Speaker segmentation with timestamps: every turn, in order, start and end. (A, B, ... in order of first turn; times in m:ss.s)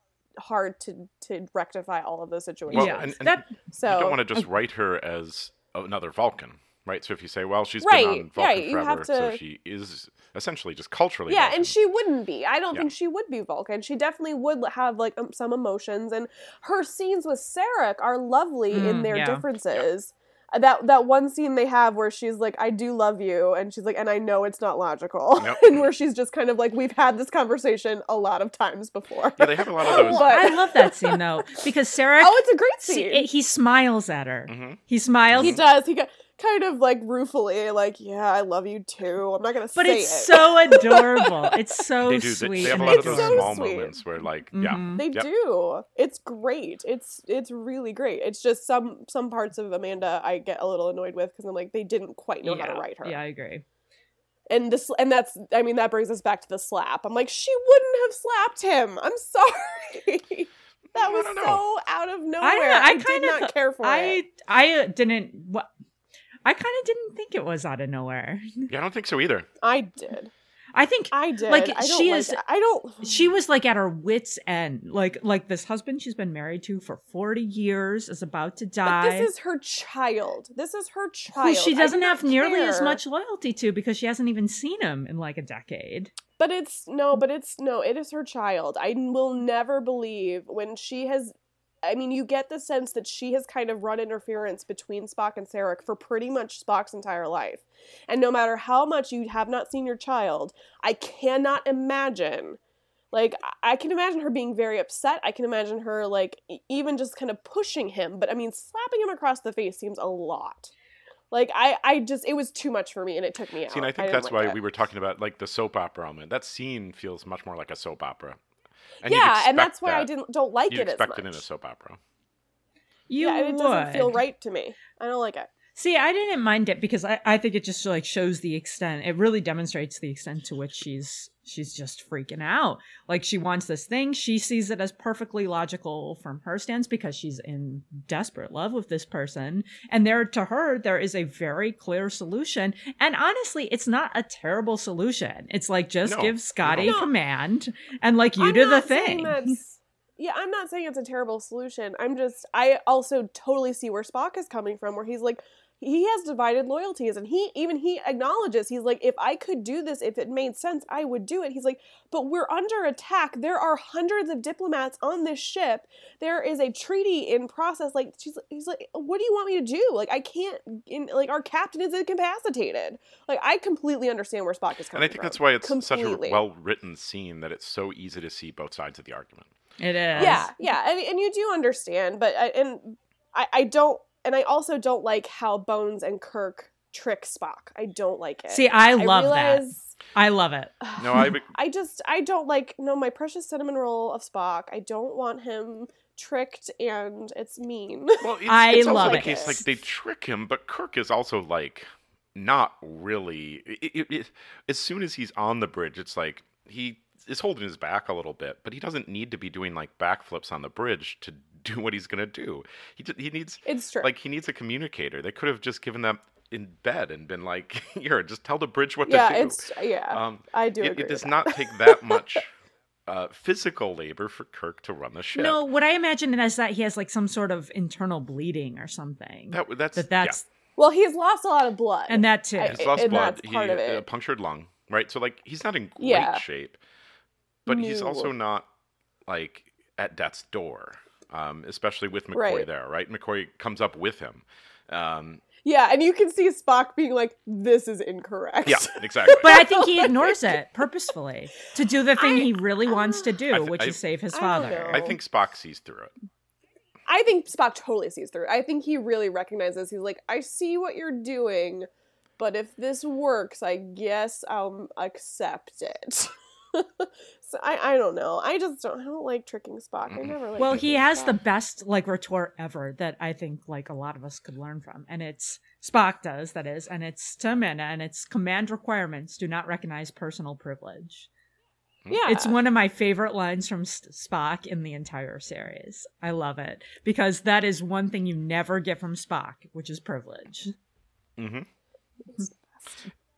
0:00.4-0:04.2 A
0:02.7-0:03.5 B
0:02.7-0:11.7 C
0:07.8-0:09.4 A
0:11.3-0:31.6 A
0:18.7-0:19.4 B
0:25.4-0:25.9 C
0:29.4-0:30.3 C
0:29.8-0:35.6 B
0:32.2-0:33.3 A
0:34.5-0:34.8 C
0:35.3-0:35.6 C
0:35.4-0:41.8 A
0:39.7-0:43.5 B
0:42.0-0:45.3 C
0:42.6-0:43.9 A
0:44.5-0:45.0 B
0:45.0-0:53.2 A
0:52.4-0:53.6 B
0:54.5-1:04.2 A
1:00.9-1:01.6 C
1:02.4-1:05.7 B
1:06.4-1:08.7 B
1:08.7-1:09.5 C
1:09.6-1:10.3 A
1:10.7-1:12.4 B
1:11.1-1:13.3 A
1:13.0-1:19.3 B
1:18.8-1:23.0 A
1:21.3-1:26.1 B
1:26.4-1:42.6 A
1:43.1-1:50.7 A
1:51.3-1:54.6 A
1:53.7-1:58.4 C
1:59.0-2:00.1 C
1:59.0-2:01.4 A
2:00.7-2:02.0 C
2:03.1-2:04.2 B
2:03.2-2:05.5 A
2:05.8-2:29.5 B
2:26.0-2:26.9 C
2:26.7-2:27.1 A
2:28.4-2:56.4 A
2:54.9-2:59.5 C
2:59.8-3:00.5 B
3:00.1-3:00.4 C
3:00.2-3:09.9 A
3:08.5-3:11.3 B
3:10.9-3:19.6 A
3:11.0-3:11.5 C
3:18.2-3:42.5 C
3:18.5-3:19.6 B
3:33.6-3:34.1 A
3:39.0-3:42.2 A
3:43.1-3:45.6 C
3:45.3-3:50.4 B
3:49.5-3:50.4 C
3:50.8-3:54.0 A
3:52.1-3:53.0 B
3:52.6-3:56.8 C
3:56.0-3:56.4 A
3:57.6-3:58.3 A
3:57.6-3:58.7 C
3:59.3-4:05.4 C
4:02.3-4:02.6 A
4:05.6-4:10.6 A
4:08.6-4:09.6 C
4:09.4-4:15.1 B
4:12.2-4:13.3 A
4:13.5-4:14.0 C
4:14.3-4:15.2 A
4:14.6-4:16.1 C
4:17.1-4:21.9 A
4:22.4-4:31.4 A
4:30.1-4:30.8 C
4:30.6-4:41.3 B
4:42.1-4:42.6 A
4:42.2-4:50.7 B
4:51.4-4:51.6 C
4:52.3-4:53.0 A